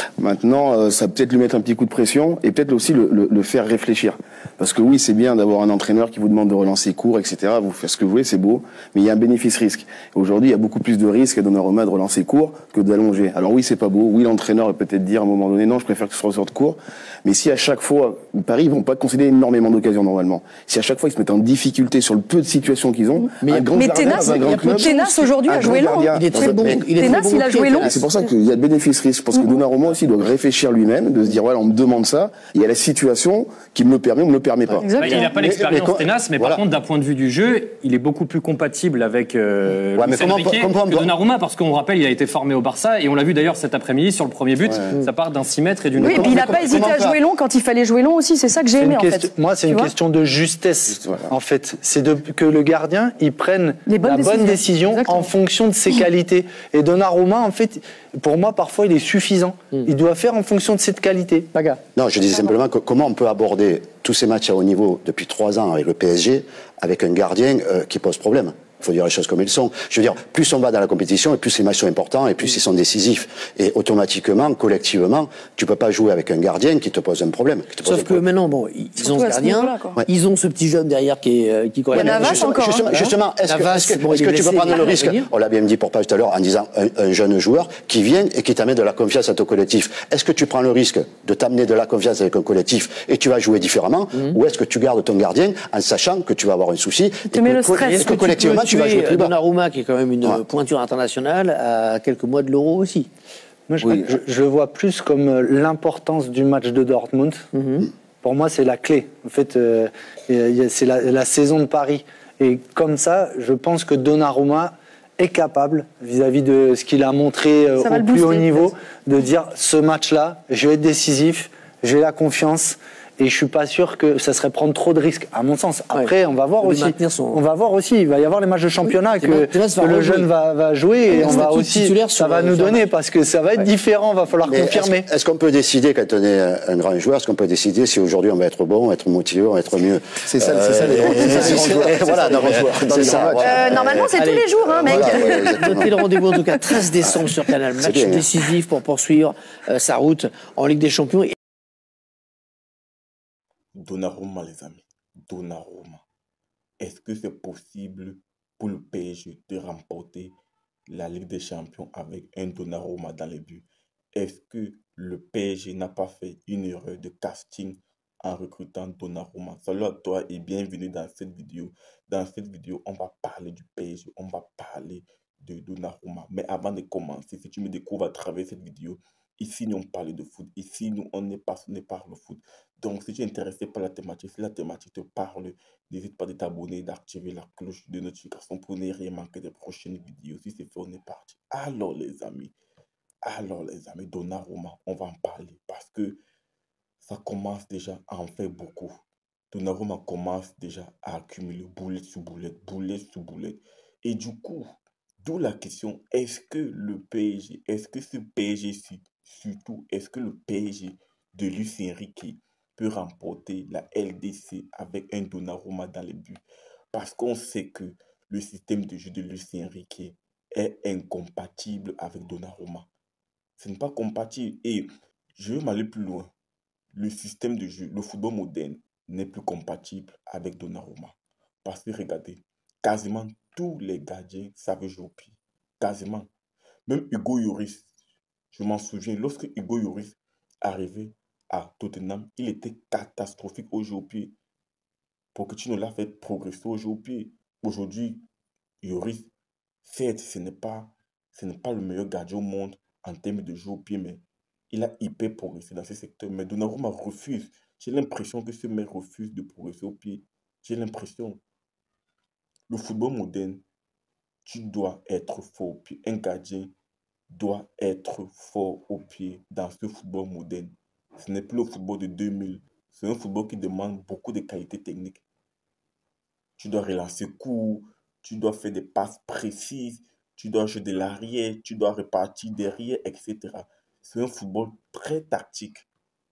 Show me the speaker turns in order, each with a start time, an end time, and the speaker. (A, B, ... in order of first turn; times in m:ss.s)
0:00.2-0:26.8 A
0:23.4-0:25.0 B
0:23.7-0:28.3 C
0:26.1-0:28.0 B
0:27.8-0:34.9 A
0:34.8-0:35.3 C
0:35.0-0:46.7 D
0:35.0-0:36.6 E
0:40.0-0:41.1 E
0:44.6-0:44.9 E
0:46.0-0:47.2 E
0:46.0-0:49.9 C
0:48.8-1:01.8 F
0:51.0-0:51.3 A
0:53.9-0:55.3 C
1:02.0-1:18.2 E
1:17.8-1:25.3 B
1:19.0-1:20.0 C
1:21.9-1:22.9 C
1:21.9-1:39.3 E
1:37.3-1:38.1 C
1:37.9-1:43.1 B
1:43.7-1:47.4 F
1:47.5-1:47.9 B
1:48.2-2:15.1 F
1:57.8-1:58.7 C
2:05.9-2:07.4 B
2:08.8-2:10.3 B
2:11.1-2:12.8 B
2:14.4-2:24.0 E
2:20.2-2:24.0 A
2:20.9-2:22.5 B
2:23.4-2:25.9 C
2:24.1-2:31.3 B
2:24.6-2:25.9 E
2:27.8-2:28.2 E
2:33.8-2:36.0 G
2:36.8-2:40.4 G
2:40.9-3:12.5 G
3:13.2-3:16.2 G
3:17.0-3:42.9 G
3:43.6-3:46.3 G
3:46.9-3:56.3 G
3:56.9-3:57.9 G
3:58.5-4:04.4 G
4:05.4-4:08.2 G
4:08.8-4:09.3 G
4:09.8-4:21.4 G
4:22.7-4:23.6 G
4:24.5-4:26.8 G
4:27.3-4:35.2 G
4:36.6-4:45.9 G